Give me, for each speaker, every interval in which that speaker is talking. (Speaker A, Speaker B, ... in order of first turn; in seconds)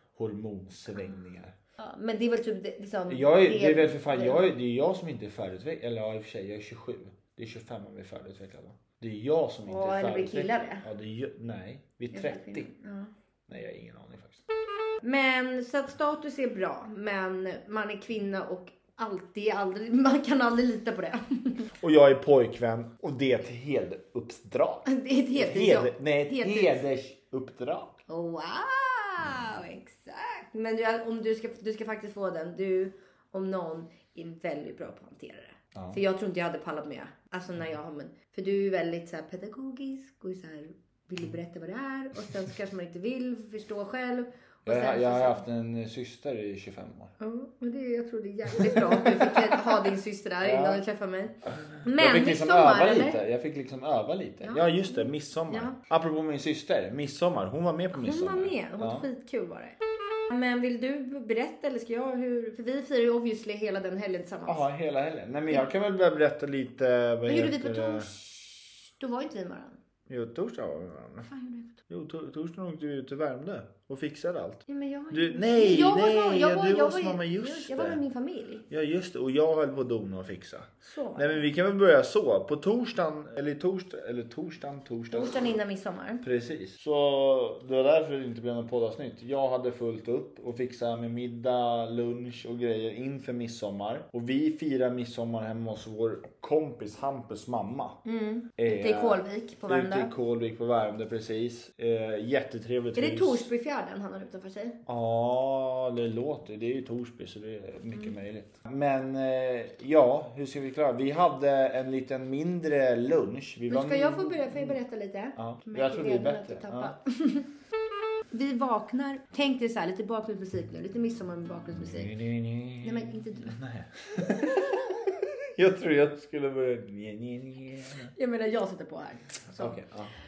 Speaker A: 0.1-1.5, 3.1-12.7, 13.5-14.4, 21.8-27.9, 35.7-36.0, 44.6-47.1, 48.5-49.8, 50.4-50.8, 51.5-59.1, 64.5-68.1, 70.1-71.3, 71.9-78.0, 78.7-85.5, 86.2-98.0, 98.6-103.5, 104.8-114.8, 115.3-116.9, 121.8-128.1, 129.6-130.1
Speaker B: 1.8-4.5, 9.7-10.8, 12.1-13.1, 15.0-21.7, 24.9-26.8, 28.1-45.4, 47.2-53.2, 54.4-55.8, 57.9-59.8, 60.3-64.7, 67.3-69.8, 71.3-71.7, 74.7-78.6, 80.8-81.4, 85.1-86.2, 98.0-100.1, 102.9-104.8, 113.7-117.5, 118.3-122.1, 122.8-123.5, 128.1-129.8